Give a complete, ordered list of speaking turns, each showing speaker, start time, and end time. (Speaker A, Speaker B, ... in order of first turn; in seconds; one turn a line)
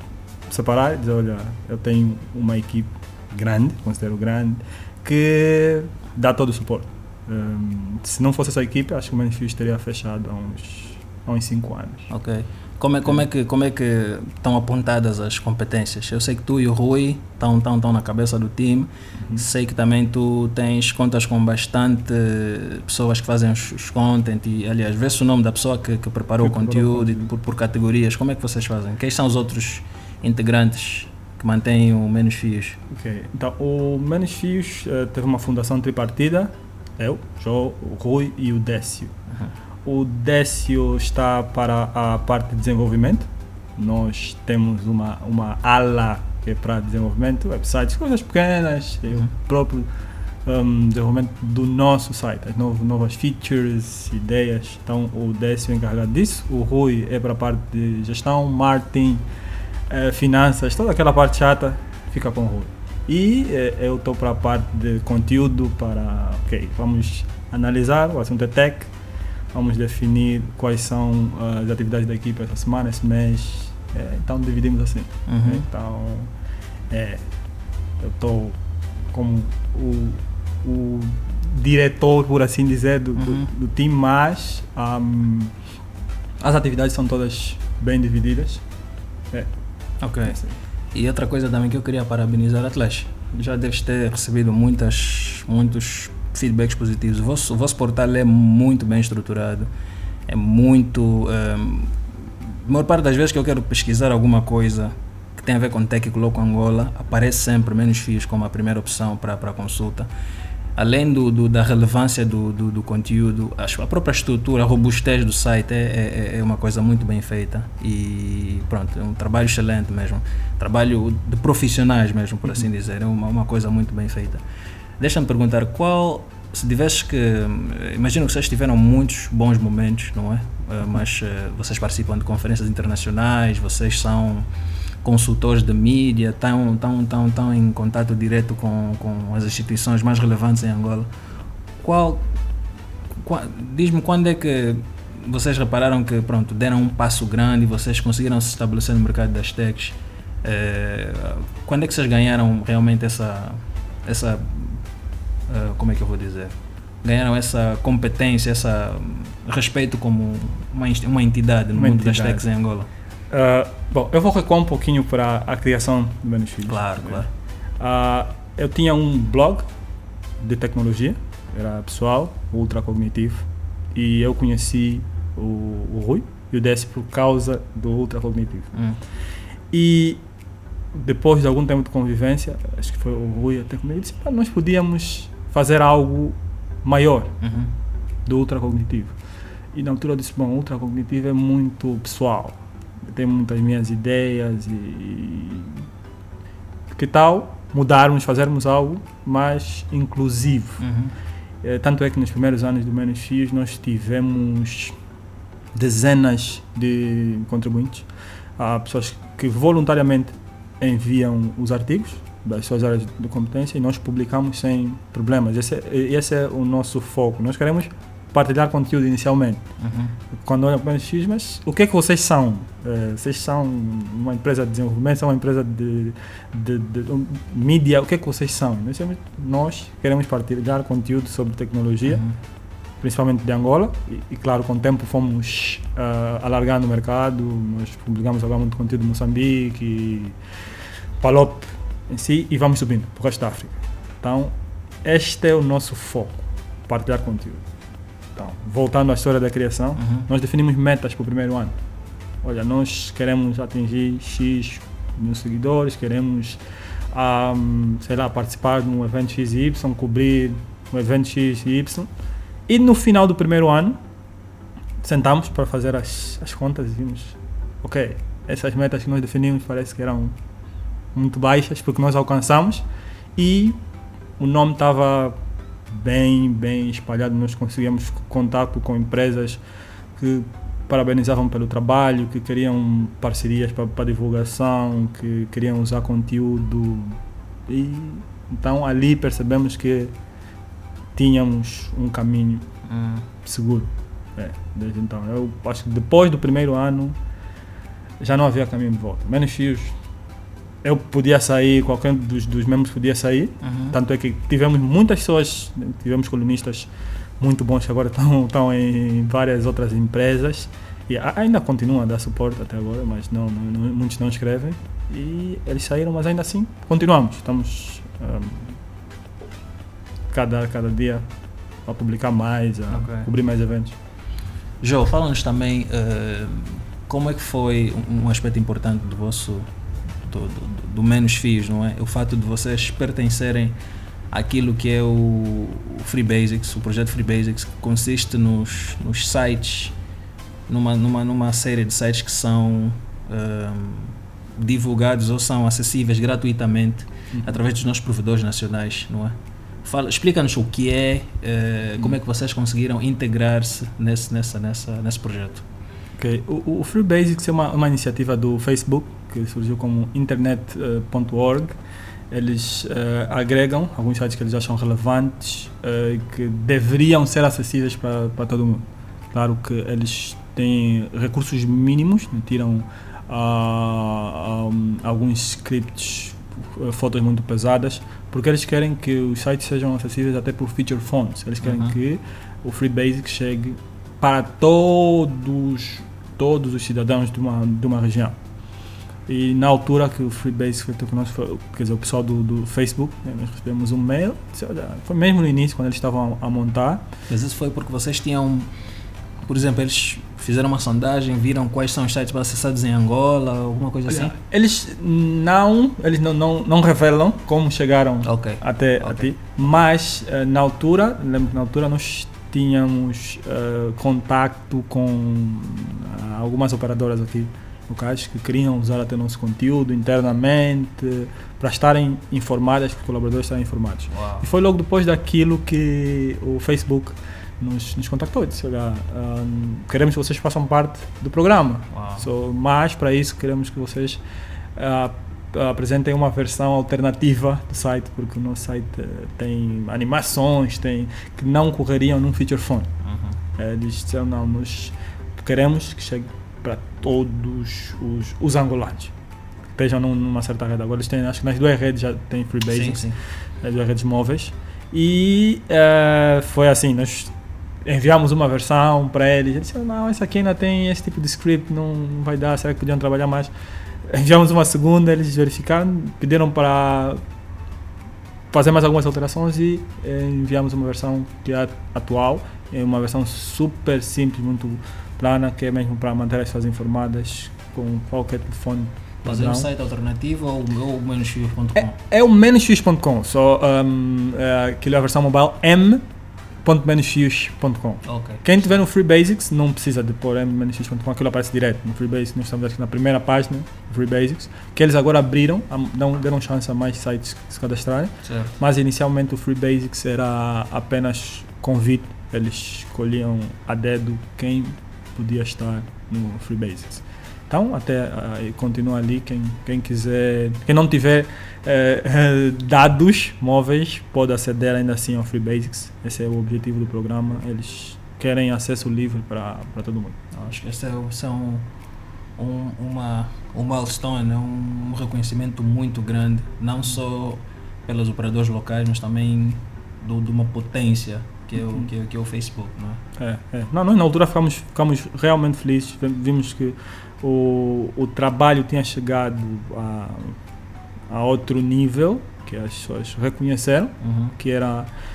Speaker A: 0.5-12.1
Speaker B: 12.1-32.8
Speaker A: 26.4-27.3
Speaker A: 32.9-39.1
Speaker A: 39.8-49.9
Speaker A: 50.5-59.2
Speaker A: 59.9-68.9
Speaker A: 69.5-76.3
Speaker B: 75.3-75.6
Speaker A: 76.9-77.3
Speaker A: 78.0-78.6
Speaker A: 79.1-85.5
Speaker B: 83.2-83.5
Speaker A: 86.4-88.6
Speaker B: 90.0-90.4
Speaker A: 90.3-90.5
Speaker B: 90.9-99.7
Speaker B: 100.3-110.1
Speaker B: 110.8-124.4
Speaker B: 125.0-134.5
Speaker B: 135.0-141.1
Speaker B: 141.8-142.3
Speaker B: 143.2-154.8
Speaker B: 155.5-162.9
Speaker A: 161.7-162.4
Speaker A: 163.3-167.3
Speaker B: 166.7-167.3
Speaker A: 167.8-169.7
Speaker A: 170.4-178.7
Speaker A: 179.7-180.2
Speaker A: 180.9-187.3
Speaker B: 187.4-187.7
Speaker A: 188.3-189.2
Speaker A: 189.7-195.8
Speaker A: 196.9-200.8
Speaker B: 200.8-201.1
Speaker A: 201.6-205.0
Speaker A: 205.7-219.6
Speaker B: 219.8-220.2
Speaker A: 220.3-232.2
Speaker B: 232.1-232.3
Speaker A: 233.0-240.4
Speaker A: 241.2-247.7
Speaker A: 248.4-251.8
Speaker B: 250.0-250.3
Speaker A: 252.4-256.6
Speaker A: 257.1-262.1
Speaker A: 262.7-264.0
Speaker A: 265.0-270.4
Speaker A: 271.1-272.9
Speaker A: 273.4-273.8
Speaker A: 274.4-275.4
Speaker A: 275.9-279.6
Speaker A: 280.2-290.1
Speaker A: 291.2-292.7
Speaker B: 292.9-293.3
Speaker A: 293.4-297.2
Speaker A: 298.2-299.9
Speaker A: 300.8-318.8
Speaker B: 303.6-304.0
Speaker A: 320.3-321.3
Speaker A: 321.9-323.9
Speaker B: 322.9-323.3
Speaker B: 324.8-329.7
Speaker B: 330.2-333.8
Speaker B: 334.3-339.9
Speaker B: 340.7-355.6
Speaker A: 356.2-361.8
Speaker A: 362.3-388.4
Speaker B: 381.6-382.0
Speaker A: 389.3-397.1
Speaker B: 397.3-398.7
Speaker B: 399.4-404.4
Speaker A: 404.1-434.2
Speaker B: 408.2-409.3
Speaker B: 424.1-424.5
Speaker B: 431.9-432.3
Speaker A: 434.8-442.9
Speaker B: 443.1-443.4
Speaker A: 443.6-449.1
Speaker A: 449.8-453.1
Speaker B: 452.7-453.2
Speaker A: 453.6-457.3
Speaker A: 457.8-463.5
Speaker A: 464.1-467.2
Speaker A: 468.5-479.7
Speaker B: 479.2-482.0
Speaker A: 481.8-486.0
Speaker A: 486.6-520.2
Speaker B: 488.1-488.6
Speaker B: 498.2-498.6
Speaker B: 520.3-521.7
Speaker B: 522.4-533.0
Speaker A: 531.6-531.9
Speaker A: 533.2-540.4
Speaker A: 541.1-544.9
Speaker B: 544.0-544.4